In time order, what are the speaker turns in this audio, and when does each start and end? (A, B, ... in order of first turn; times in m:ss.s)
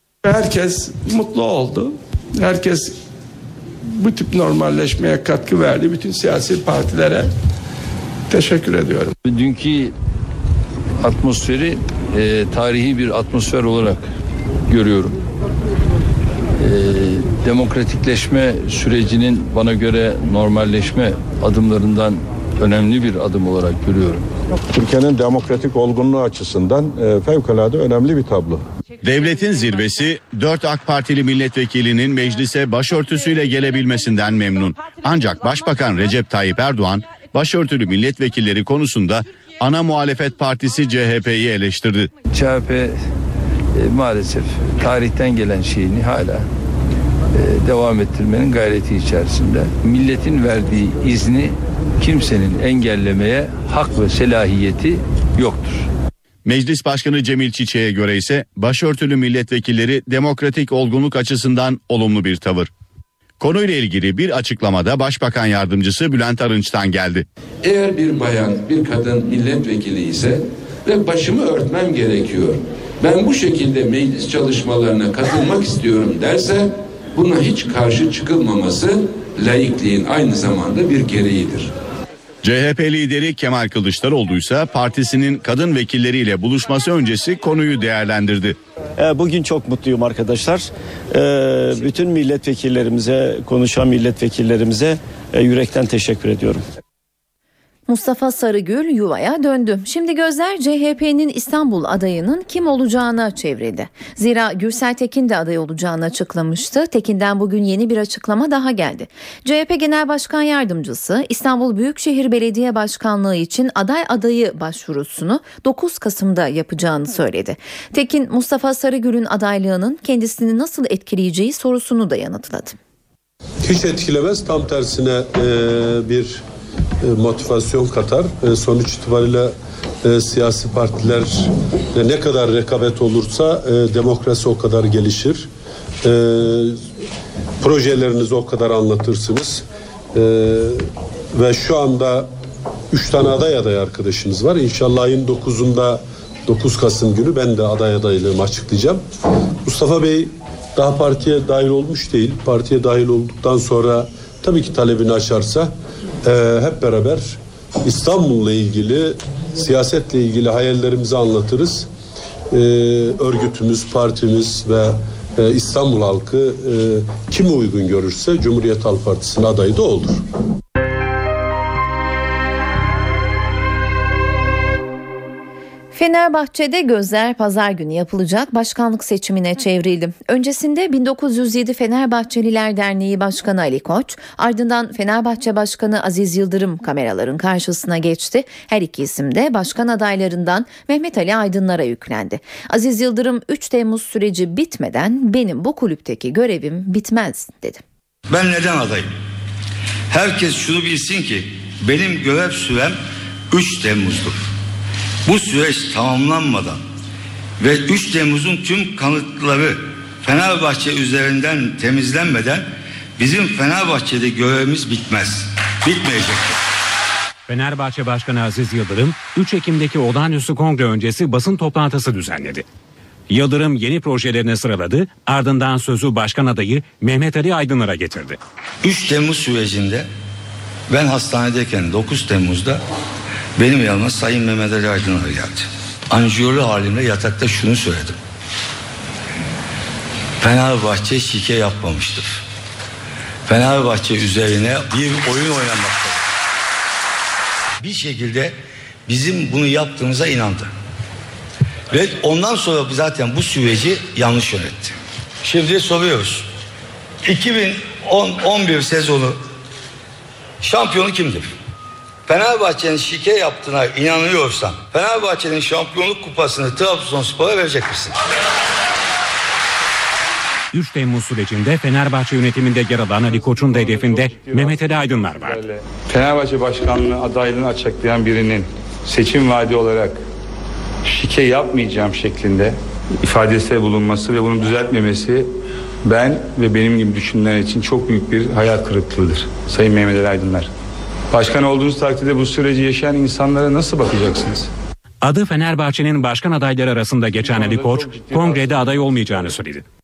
0:00.2-0:02.9 A
0:03.8-0:07.3 A
0:08.3-0:09.1 A
0:09.2-0:09.9 B
0:11.0-0:14.0 B
0:14.7-0:15.2 B
0:16.5-0:24.3 B
0:24.7-0:28.6 C
0:29.0-0:42.1 D
0:42.3-0:43.0 B
0:43.7-0:46.4 B
0:47.3-0:55.9 B
0:56.4-1:02.7 D
1:03.4-1:07.2 D
1:07.6-1:21.7 E
1:22.4-1:28.6 D
1:29.0-1:36.6 F
1:37.9-2:02.8 G
2:03.6-2:06.4 H
2:07.0-2:15.5 H
2:16.0-2:16.8 H
2:17.6-2:22.3 H
2:22.9-2:29.0 H
2:29.6-2:41.9 H
2:42.5-2:50.2 H
2:55.9-3:17.8 G
3:18.3-3:19.1 I
3:20.1-3:23.0 I
3:23.5-3:24.4 I
3:25.2-3:26.8 I
3:27.6-3:36.6 I
3:37.5-3:42.6 J
3:43.3-3:48.4 J
3:48.8-3:50.1 I
3:50.9-3:52.8 I
3:53.6-3:58.2 I
4:00.4-4:02.4 I
4:03.5-4:06.2 I
4:07.8-4:08.6 I
4:09.1-4:10.7 I
4:11.9-4:16.5 I
4:17.2-4:19.4 I
4:20.6-4:21.5 I
4:22.3-4:28.2 I
4:30.7-4:35.6 J
4:33.2-4:40.2 K
4:41.0-4:45.5 K
4:46.0-4:50.7 K
4:51.3-4:54.7 K
4:55.2-4:59.8 J
4:57.4-4:59.6 K